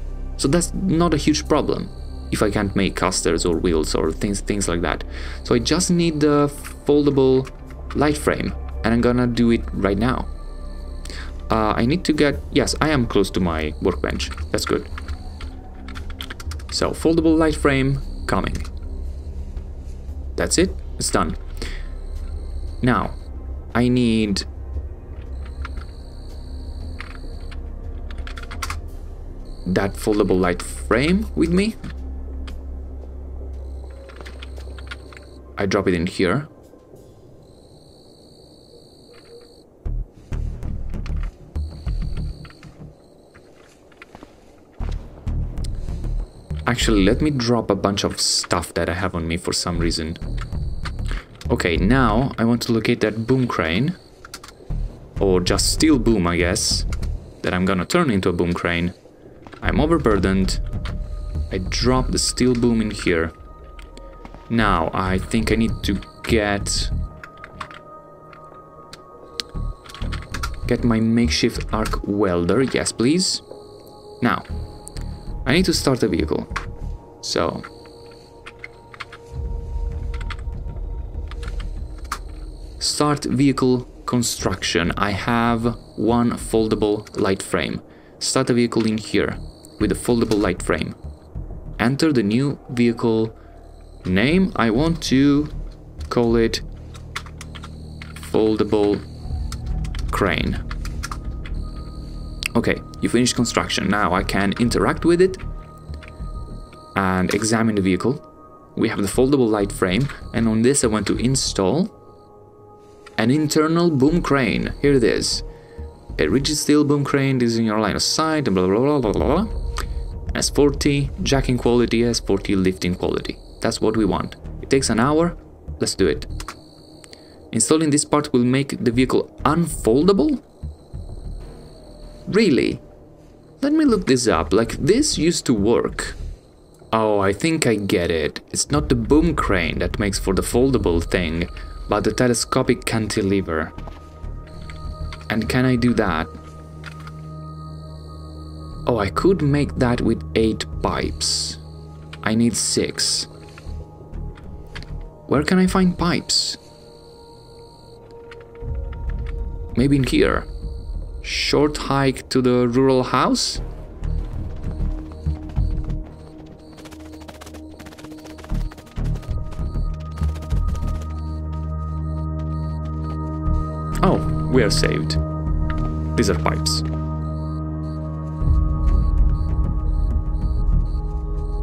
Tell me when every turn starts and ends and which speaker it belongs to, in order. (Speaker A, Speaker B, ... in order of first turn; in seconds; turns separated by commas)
Speaker A: 0.4-10.3, Speaker A: 11.5-14.9, Speaker A: 16.7-18.7, Speaker A: 20.4-21.4, Speaker A: 22.8-23.2, Speaker A: 23.7-24.5, Speaker A: 29.6-31.8, Speaker A: 35.6-36.5, Speaker A: 46.7-50.2, Speaker A: 51.5-54.0, Speaker A: 55.2-56.9, Speaker A: 57.4-58.9, Speaker A: 59.6-60.6, Speaker A: 61.5-63.3, Speaker A: 64.5-66.9, Speaker A: 70.7-73.4, Speaker A: 74.2-74.5, Speaker A: 75.4-76.5, Speaker A: 77.2-77.7, Speaker A: 82.8-91.0, Speaker A: 91.8-93.3, Speaker A: 94.0-95.5, Speaker A: 96.1-96.6, Speaker A: 98.1-99.1, Speaker A: 100.1-100.6, Speaker A: 102.5-105.4, Speaker A: 106.9-108.2, Speaker A: 108.7-111.9, Speaker A: 113.2-115.4, Speaker A: 116.2-119.5, Speaker A: 120.3-126.3, Speaker A: 127.5-130.4, Speaker A: 132.3-132.8, Speaker A: 133.6-136.2, Speaker A: 136.9-143.7, Speaker A: 145.3-146.3, Speaker A: 148.8-151.6, Speaker A: 152.2-153.3, Speaker A: 155.3-156.6, Speaker A: 159.7-160.5, Speaker A: 161.2-163.6, Speaker A: 174.0-175.2, Speaker A: 176.1-176.8